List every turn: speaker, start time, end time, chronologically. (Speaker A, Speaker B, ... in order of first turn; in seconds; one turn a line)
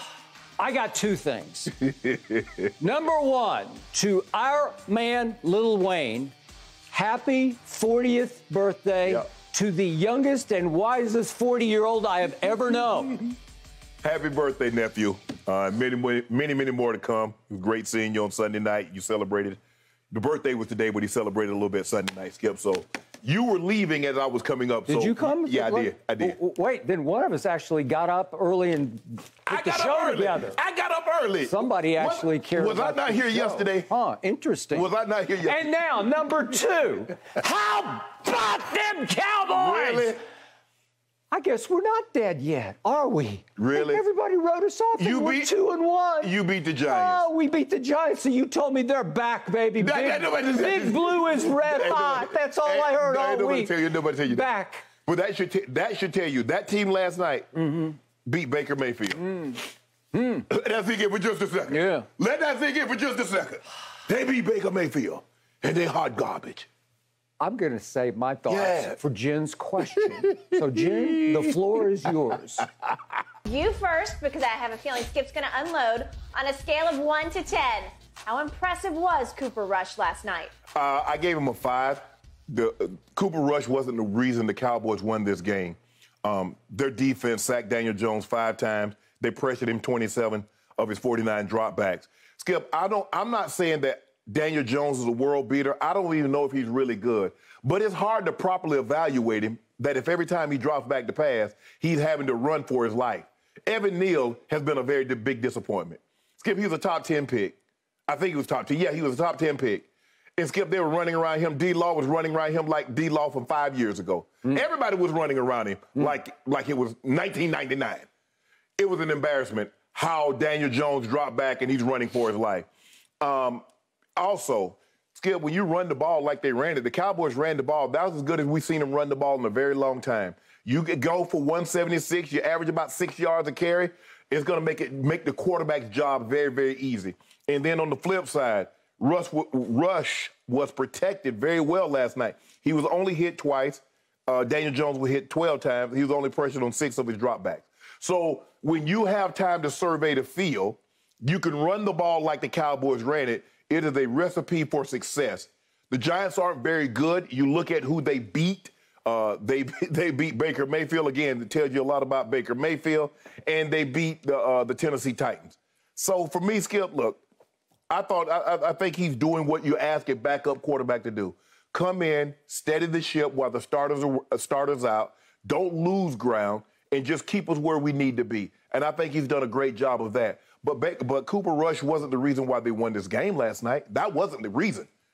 Speaker A: 0.6-1.7
Speaker B: 1.8-2.7
Speaker A: 2.8-6.3
Speaker A: 6.9-13.3
Speaker B: 14.0-19.6
Speaker B: 20.1-26.4
Speaker A: 24.9-30.6
Speaker B: 29.5-33.9
Speaker A: 31.4-34.9
Speaker B: 34.7-35.6
Speaker A: 35.4-40.2
Speaker B: 39.5-40.2
Speaker A: 41.3-46.3
Speaker B: 43.6-44.0
Speaker B: 45.0-45.5
Speaker B: 46.2-47.2
Speaker A: 46.9-54.9
Speaker B: 49.8-54.5
Speaker B: 55.0-59.6
Speaker A: 57.6-57.9
Speaker A: 59.3-59.6
Speaker A: 60.1-60.4
Speaker B: 60.5-66.7
Speaker A: 61.7-62.0
Speaker A: 67.4-72.7
Speaker B: 68.5-69.0
Speaker B: 69.9-71.6
Speaker C: 73.4-80.5
Speaker B: 80.7-107.5
Speaker B: 108.1-118.0
Speaker B: 118.8-122.7
Speaker B: 123.2-123.6
Speaker B: 124.2-167.2
Speaker B: 167.9-184.9